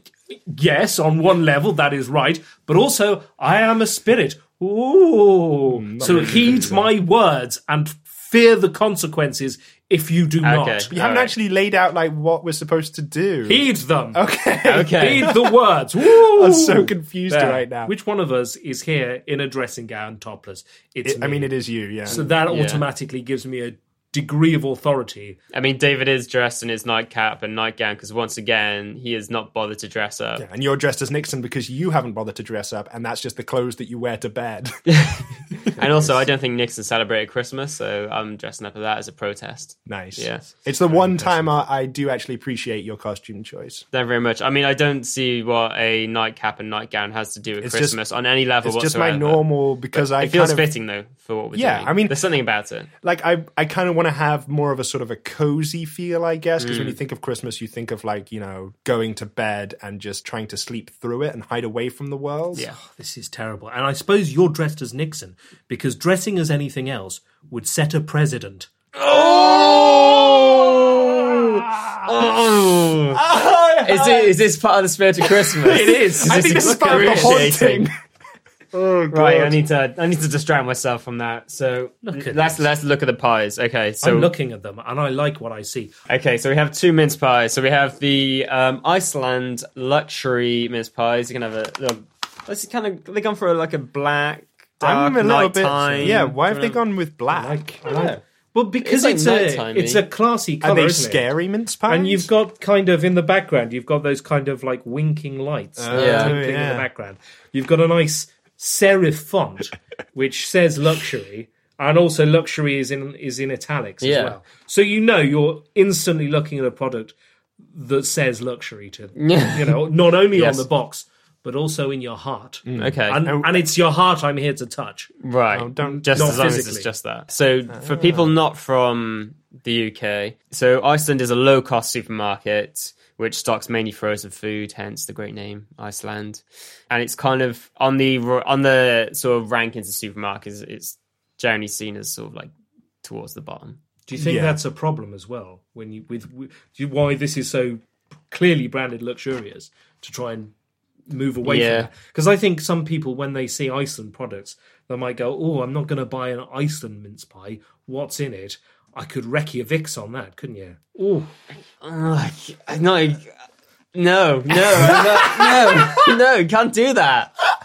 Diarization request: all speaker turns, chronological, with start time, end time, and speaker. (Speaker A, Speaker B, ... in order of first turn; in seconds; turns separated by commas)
Speaker A: 0.3-10.9, Speaker B: 5.7-6.7, Speaker C: 6.0-6.8, Speaker C: 10.4-11.3, Speaker B: 10.9-17.9, Speaker A: 13.4-14.2, Speaker C: 14.6-15.3, Speaker A: 15.0-21.5, Speaker B: 21.0-22.2, Speaker A: 22.0-25.4, Speaker C: 22.1-22.8, Speaker C: 25.5-30.4, Speaker B: 30.4-34.8, Speaker C: 34.9-41.5, Speaker B: 35.9-36.2, Speaker B: 39.9-43.8, Speaker C: 43.9-52.9, Speaker B: 47.6-48.1, Speaker B: 48.6-50.7, Speaker B: 51.5-52.2, Speaker B: 53.0-62.7, Speaker C: 56.6-57.0, Speaker A: 62.8-68.7, Speaker B: 69.0-72.1, Speaker C: 72.0-73.2, Speaker B: 73.1-74.3, Speaker C: 73.8-77.9, Speaker B: 75.2-77.9, Speaker A: 75.6-77.5, Speaker B: 78.7-79.5, Speaker C: 79.1-84.3, Speaker A: 82.0-82.6, Speaker A: 84.0-85.9, Speaker C: 86.1-96.8, Speaker B: 94.8-97.8, Speaker A: 96.0-96.3, Speaker A: 97.3-101.2, Speaker C: 97.8-98.2, Speaker C: 98.8-100.0, Speaker B: 100.6-102.3, Speaker A: 101.8-117.1, Speaker B: 105.8-106.9, Speaker C: 105.9-106.3, Speaker C: 114.0-114.4, Speaker A: 117.7-125.1, Speaker C: 119.2-119.8, Speaker C: 120.3-120.7, Speaker B: 122.6-123.6, Speaker C: 122.8-123.2, Speaker C: 125.2-142.5, Speaker B: 125.5-126.7, Speaker A: 125.8-126.9, Speaker B: 127.7-128.4, Speaker C: 143.0-143.8, Speaker A: 144.1-150.5, Speaker B: 144.1-144.6, Speaker A: 151.1-161.3, Speaker C: 151.4-151.9, Speaker C: 161.8-163.3, Speaker C: 163.9-167.3